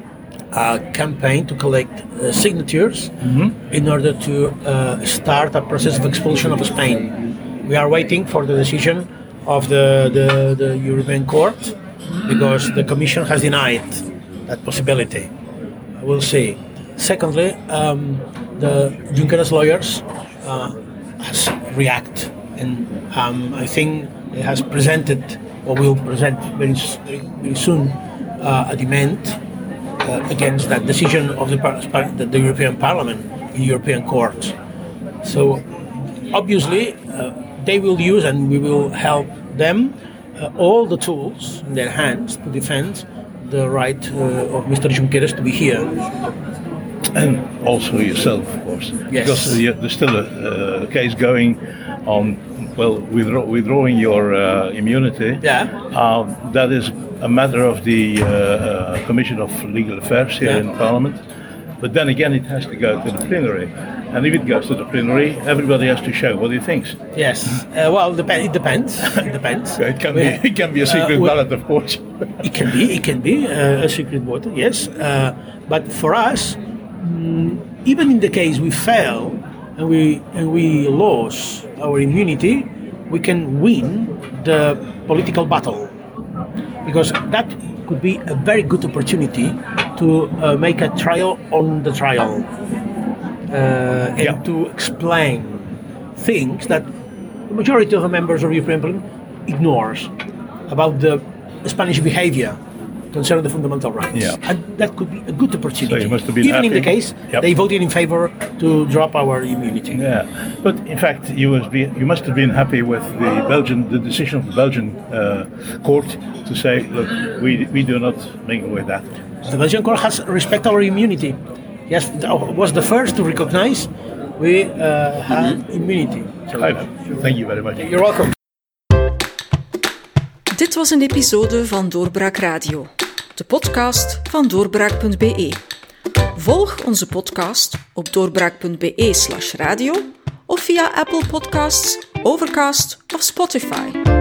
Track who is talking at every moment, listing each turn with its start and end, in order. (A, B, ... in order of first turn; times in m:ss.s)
0:00.5-0:15.3 A
0:03.2-0:03.5 B
0:16.0-0:29.4 A
0:30.0-0:34.6 A
0:35.2-0:35.7 A
0:36.3-0:46.1 A
0:47.1-1:01.2 B
0:49.1-0:49.6 A
0:55.4-0:55.7 A
1:01.8-1:07.0 B
1:07.1-1:11.4 A
1:09.8-1:12.3 B
1:12.4-1:25.9 A
1:26.8-1:32.5 A
1:33.5-1:36.9 A
1:37.5-1:40.1 A
1:40.7-1:42.6 A
1:43.1-1:50.0 A
1:44.1-1:44.4 B
1:45.8-1:47.4 B
1:49.9-1:59.1 B
1:59.4-2:01.4 A
2:01.9-2:07.2 A
2:06.5-2:07.9 B
2:07.8-2:08.3 A
2:10.5-2:15.6 C
2:16.3-2:24.1 C